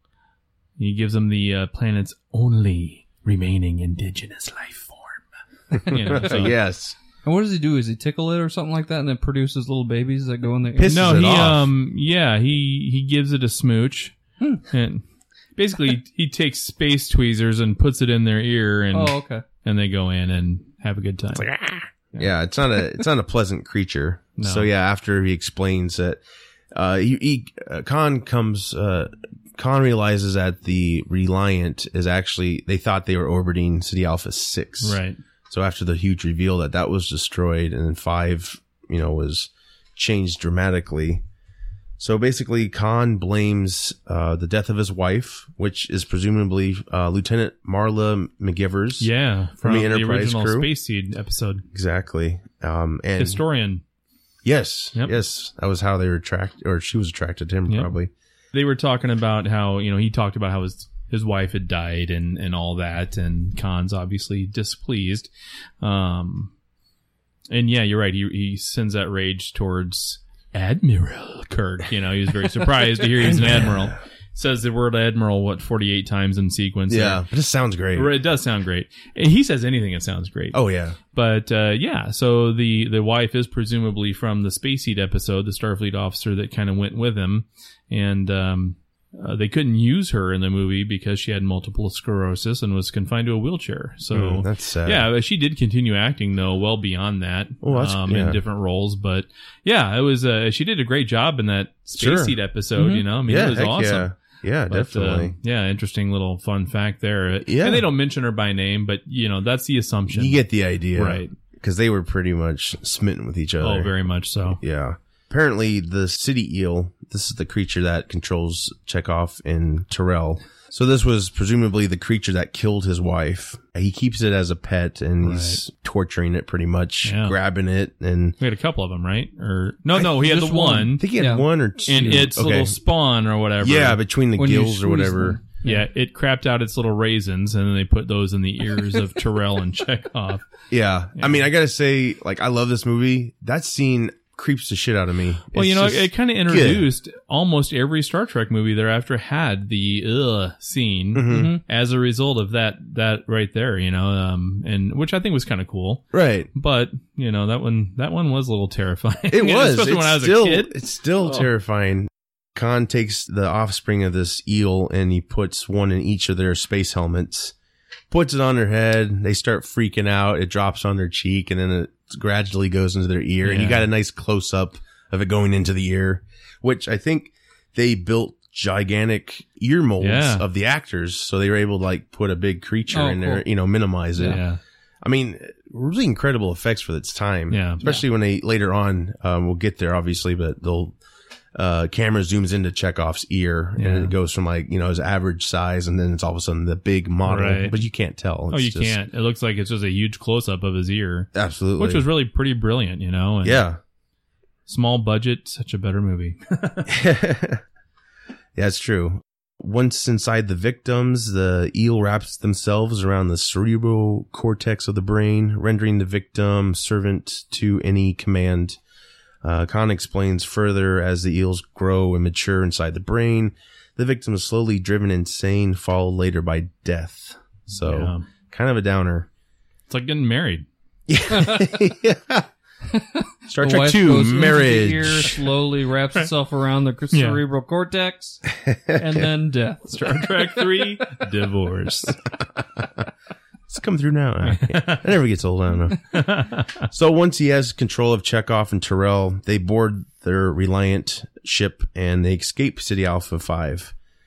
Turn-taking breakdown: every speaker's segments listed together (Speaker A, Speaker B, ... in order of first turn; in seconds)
Speaker A: 0.8-5.2, 5.8-6.5, 10.9-14.1, 14.7-15.0, 15.6-21.5, 24.4-24.7, 34.8-35.2, 49.0-51.6, 53.2-53.8, 58.5-65.3, 65.8-66.5, 67.5-77.2, 77.9-80.6, 81.1-104.1, 104.7-110.4, 110.9-111.3, 113.6-114.6, 125.2-125.6, 127.0-127.3, 128.4-131.1, 131.9-134.0, 135.6-140.4, 141.2-141.4, 145.5-160.7, 173.4-173.9, 180.0-180.4, 184.2-184.6, 187.5-187.8, 193.8-194.1, 197.2-197.8, 198.5-203.6, 204.7-207.0, 227.8-228.2, 229.9-230.7, 237.1-237.4, 239.9-242.2, 244.4-245.1, 246.1-246.8
Speaker B: 5.7-7.0, 10.8-11.7, 21.4-26.2, 26.7-41.2, 42.0-49.1, 49.6-50.7, 51.7-53.4, 54.4-58.1, 73.2-73.9, 76.9-78.1, 80.5-81.0, 94.1-95.1, 97.6-98.4, 102.0-105.3, 107.5-107.9, 110.1-113.9, 114.5-128.3, 130.9-132.8, 133.6-135.4, 140.7-146.9, 151.1-151.6, 156.1-156.5, 159.3-167.5, 168.1-184.4, 185.0-190.9, 191.5-199.0, 201.3-202.1, 203.4-203.8, 206.9-207.6, 208.6-218.8, 219.4-229.3, 231.1-232.5, 233.5-235.4, 238.6-239.2, 243.7-246.2, 246.9-253.9
Speaker C: 7.2-11.1, 18.9-19.4, 130.0-131.5, 134.4-135.8, 151.3-151.6, 182.9-183.4, 232.9-238.4, 238.9-240.6